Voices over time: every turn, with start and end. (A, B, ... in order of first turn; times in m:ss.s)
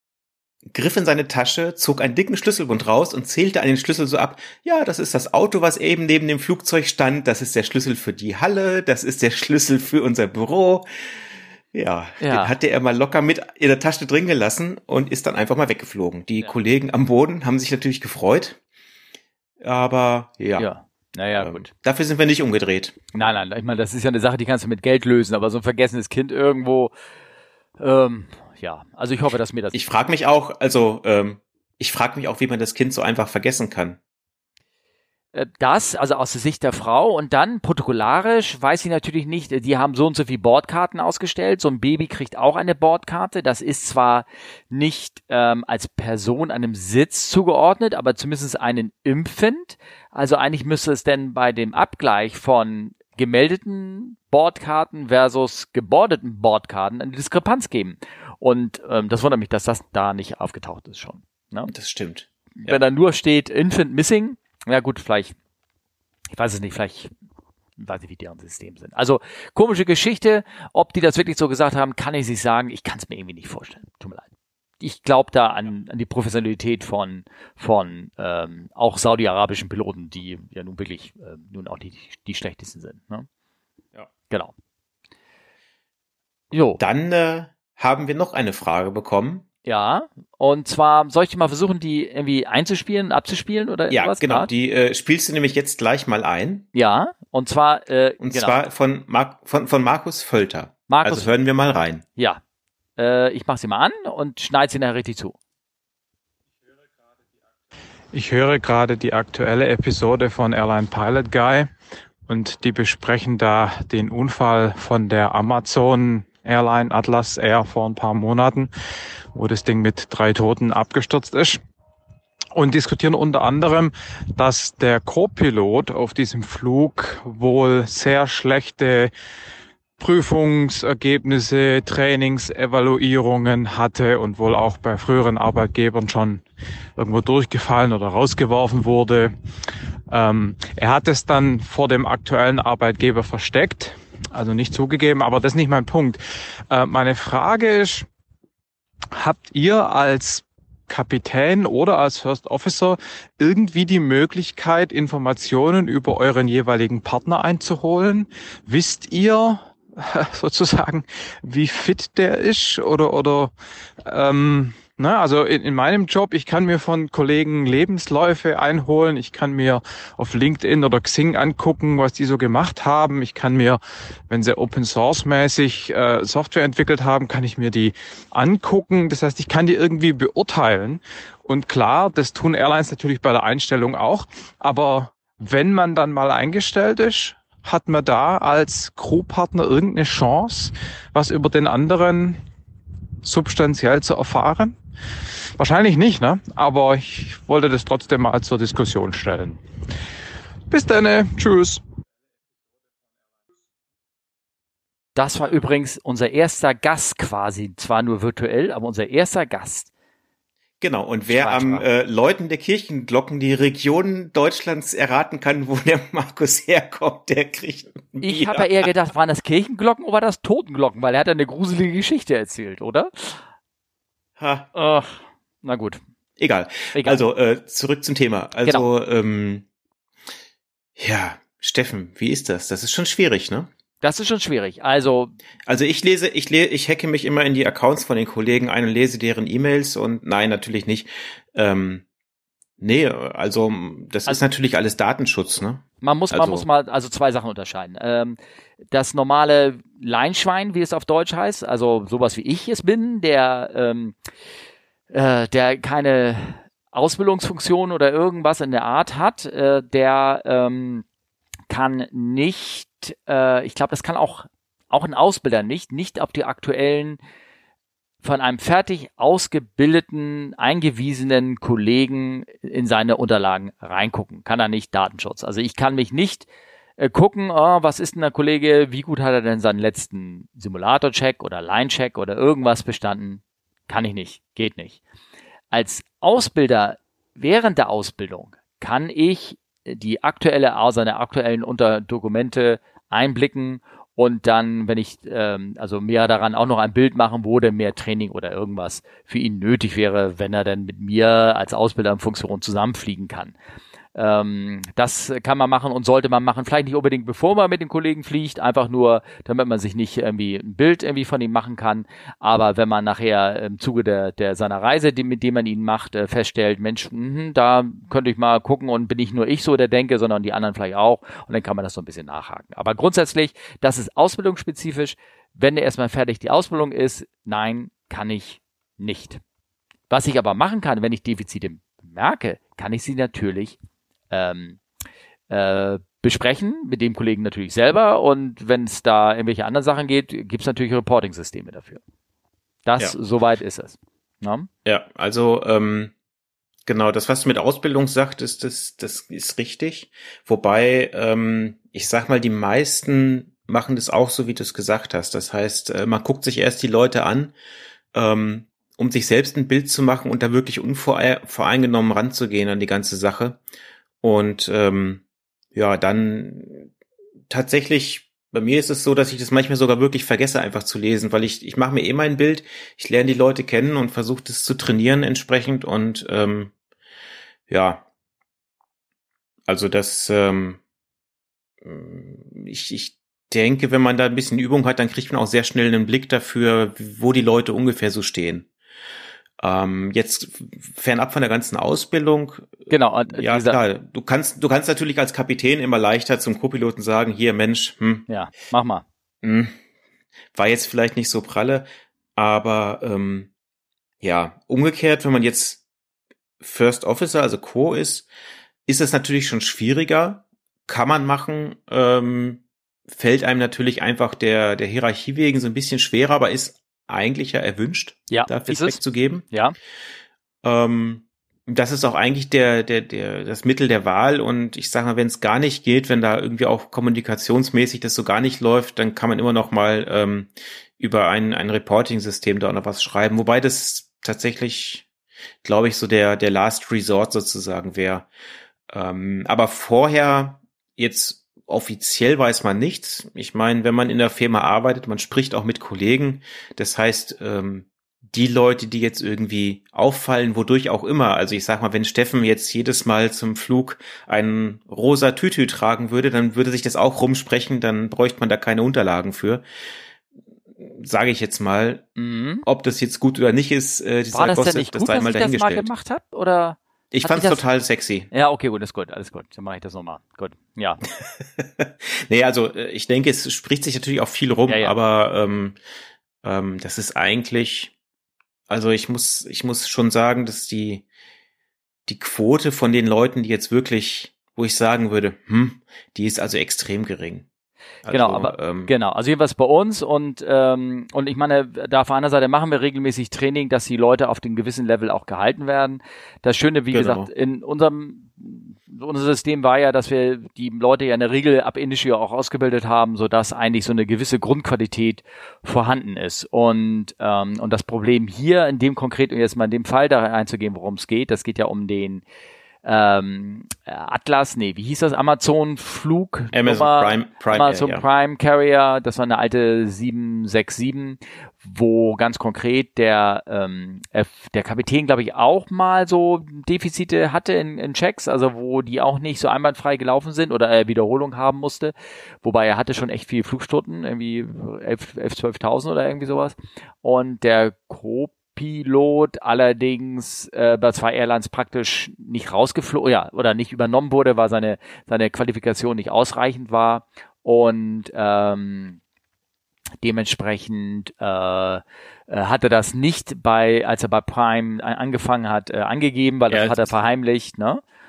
0:00.7-0:11.2 A
0:11.7-0:18.6 A
0:12.2-0:12.5 B
0:19.6-0:20.7 A
0:20.6-0:21.7 B
0:21.3-0:22.9 A
0:23.1-0:26.9 B
0:27.8-0:29.8 B
0:29.7-0:34.0 A
0:35.3-1:01.7 B
1:01.7-1:02.8 A
1:02.6-1:05.4 B
1:06.3-1:07.1 B
1:07.8-1:14.3 B
1:14.8-1:23.3 B
1:26.5-1:26.8 B
1:26.8-1:29.5 A
1:29.6-1:34.5 B
1:33.9-1:36.7 A
1:36.7-1:38.6 B
1:38.2-1:42.0 A
1:40.9-1:41.3 B
1:43.0-1:45.4 B
1:48.1-1:51.7 C
1:52.3-1:58.7 C
1:59.4-2:01.6 C
2:02.5-2:09.1 C
2:10.0-2:16.4 C
2:17.0-2:19.3 C
2:20.1-2:28.1 C
2:29.2-2:43.5 C
2:44.1-3:12.4 C
3:13.2-3:14.7 C
3:15.6-3:19.6 C
3:20.7-3:21.8 C
3:25.2-3:29.9 B
3:30.8-3:38.9 A
3:31.3-3:31.9 B
3:38.2-3:43.4 B
3:44.4-3:44.7 A
3:44.8-3:46.0 B
3:46.4-3:49.7 A
3:46.9-3:47.2 B
3:51.0-3:53.7 A
3:54.0-3:55.4 B
3:55.7-4:02.0 A
4:02.8-4:06.7 A
4:06.0-4:08.4 B
4:08.9-4:14.2 B
4:15.1-4:21.0 B
4:21.7-4:27.2 B
4:28.2-4:36.5 B
4:37.0-4:45.0 B
4:45.7-5:03.6 B
5:04.2-5:29.4 B
5:30.1-5:33.8 B
5:34.3-5:34.8 B
5:35.5-5:42.0 B
5:42.8-5:44.7 B
5:44.8-5:46.1 A
5:46.9-5:57.5 A
5:58.1-6:03.6 A
6:04.2-6:05.2 A
6:05.7-6:06.9 A
6:07.5-6:16.7 A
6:17.7-6:18.0 A
6:19.7-6:20.8 A
6:21.8-6:28.7 A
6:29.6-6:32.7 A
6:32.9-6:33.8 B
6:33.3-6:38.3 A
6:38.3-6:39.0 B
6:39.4-6:39.8 A
6:40.5-6:43.5 A
6:44.2-6:45.8 A
6:46.6-6:48.3 A
6:48.9-6:59.5 A
6:58.3-6:59.0 B
7:00.6-7:15.1 A
7:15.6-7:18.3 A
7:18.9-7:39.6 A
7:40.8-7:42.1 A
7:42.2-7:42.6 B
7:42.6-7:45.9 A
7:44.3-7:47.6 B
7:47.1-7:48.3 A
7:48.3-7:51.0 B
7:51.2-7:55.8 A
7:54.7-7:55.0 B
7:56.4-7:57.9 A
7:58.7-8:01.0 A
8:02.1-8:07.5 A
8:08.0-8:08.9 A
8:08.1-8:32.2 B
8:16.9-8:17.3 A
8:32.8-9:09.0 B
8:36.5-8:38.0 A
9:10.0-9:17.8 B
9:16.5-9:16.9 A